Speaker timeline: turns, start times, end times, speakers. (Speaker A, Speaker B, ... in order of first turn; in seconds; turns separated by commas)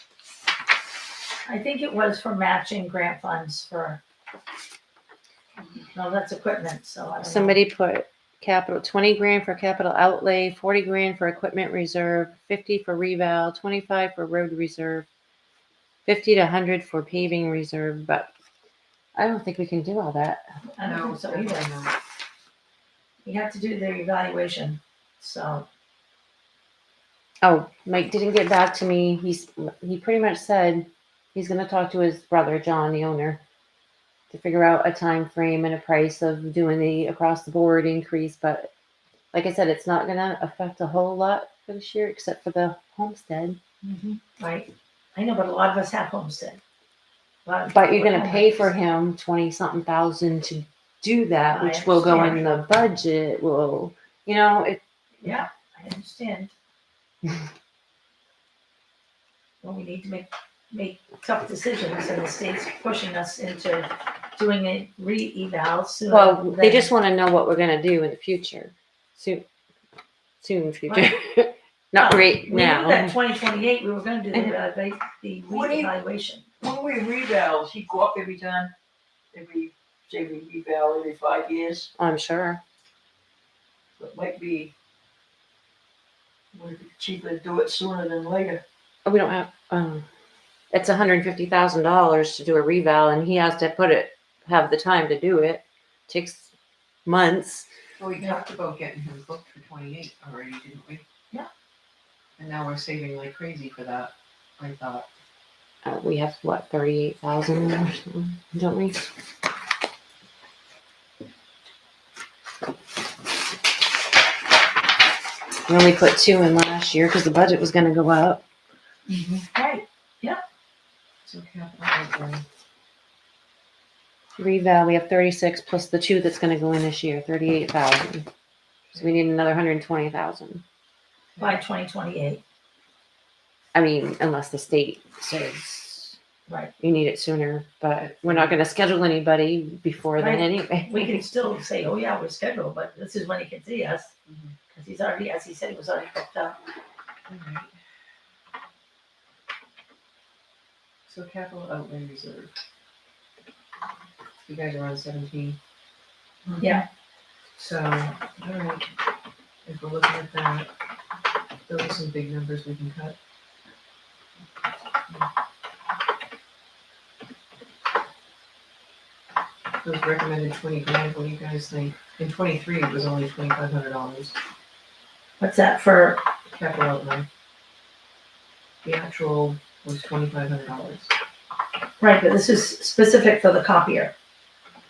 Speaker A: 1.5-4.0, Speaker A: 5.9-7.6, Speaker B: 7.2-15.1, Speaker B: 16.1-18.3, Speaker B: 19.2-20.4, Speaker A: 20.8-21.7, Speaker C: 20.8-22.0, Speaker A: 23.2-25.7, Speaker B: 27.4-33.4, Speaker B: 34.3-38.7, Speaker B: 39.3-43.6, Speaker A: 43.8-46.6, Speaker A: 47.5-48.7, Speaker B: 47.7-55.5, Speaker A: 51.5-52.5, Speaker A: 55.2-56.5, Speaker A: 59.6-66.9, Speaker B: 66.1-69.5, Speaker B: 70.4-73.2, Speaker A: 70.9-71.2, Speaker A: 72.0-76.5, Speaker D: 75.5-75.9, Speaker D: 76.6-78.7, Speaker D: 79.3-81.9, Speaker B: 82.0-82.6, Speaker D: 84.0-84.7, Speaker D: 86.5-88.6, Speaker B: 89.1-90.1, Speaker B: 90.7-96.5, Speaker B: 97.1-97.7, Speaker C: 98.0-101.0, Speaker C: 102.4-105.1, Speaker B: 105.8-109.1, Speaker B: 115.7-118.4, Speaker D: 119.1-119.4, Speaker A: 119.4-120.4, Speaker C: 121.2-122.4, Speaker B: 124.4-128.3, Speaker C: 128.9-129.2, Speaker B: 129.0-130.6, Speaker C: 131.3-131.6, Speaker A: 131.4-132.4, Speaker B: 133.8-136.2, Speaker A: 136.5-136.7, Speaker B: 136.8-141.2, Speaker C: 138.1-138.6, Speaker A: 140.2-144.1, Speaker C: 144.3-144.6, Speaker A: 144.7-146.6, Speaker C: 147.3-147.7, Speaker C: 151.1-152.6, Speaker C: 154.5-155.6, Speaker A: 156.6-156.8, Speaker C: 157.6-158.9, Speaker C: 159.7-160.7, Speaker C: 161.7-163.2, Speaker C: 169.8-174.4, Speaker A: 175.4-176.2, Speaker C: 176.5-177.3, Speaker C: 178.8-181.1, Speaker A: 182.0-184.1